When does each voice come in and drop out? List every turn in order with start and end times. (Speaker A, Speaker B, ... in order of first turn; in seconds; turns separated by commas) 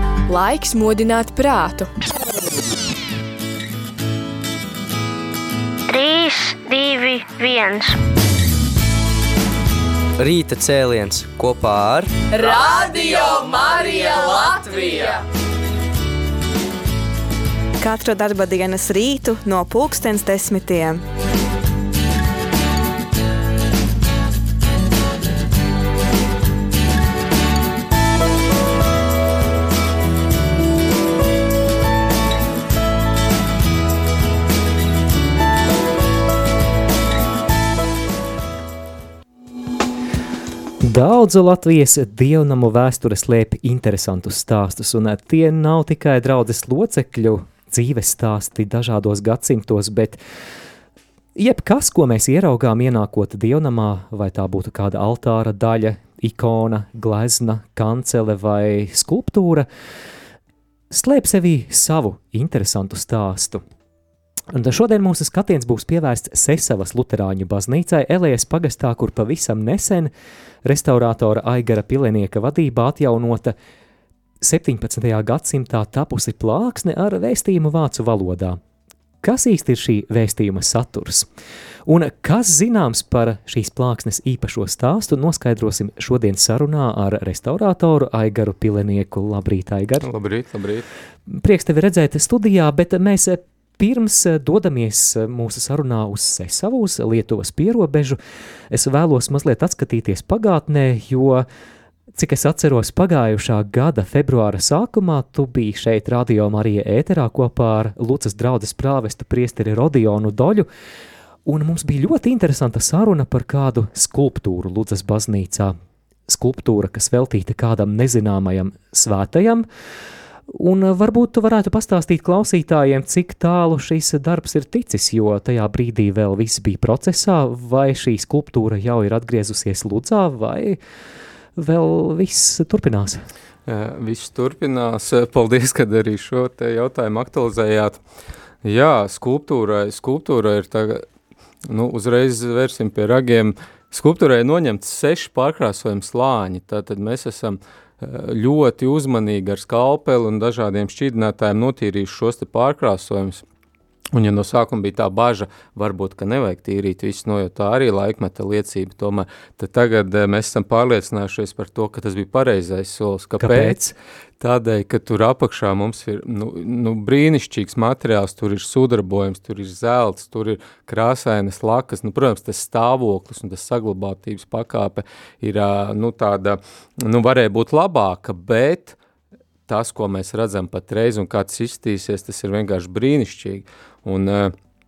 Speaker A: 0.3-1.9, Speaker B: 5.9-8.0, Speaker C: 10.2-12.1, Speaker A: 12.3-15.2, Speaker D: 17.8-21.0, Speaker E: 40.8-50.2, Speaker E: 51.4-59.7, Speaker E: 60.9-63.6, Speaker E: 64.5-70.1, Speaker E: 70.7-73.5, Speaker E: 74.4-78.6, Speaker E: 79.2-81.3, Speaker E: 81.9-90.1, Speaker F: 90.0-90.9, Speaker E: 91.3-98.2, Speaker E: 98.7-101.5, Speaker E: 102.2-110.7, Speaker E: 111.5-115.8, Speaker E: 116.3-119.7, Speaker E: 120.5-130.8, Speaker E: 131.6-133.2, Speaker F: 133.7-138.0, Speaker F: 138.6-141.1, Speaker F: 141.7-153.4, Speaker F: 154.1-163.8, Speaker E: 163.4-163.9, Speaker F: 164.4-179.0, Speaker F: 179.7-184.6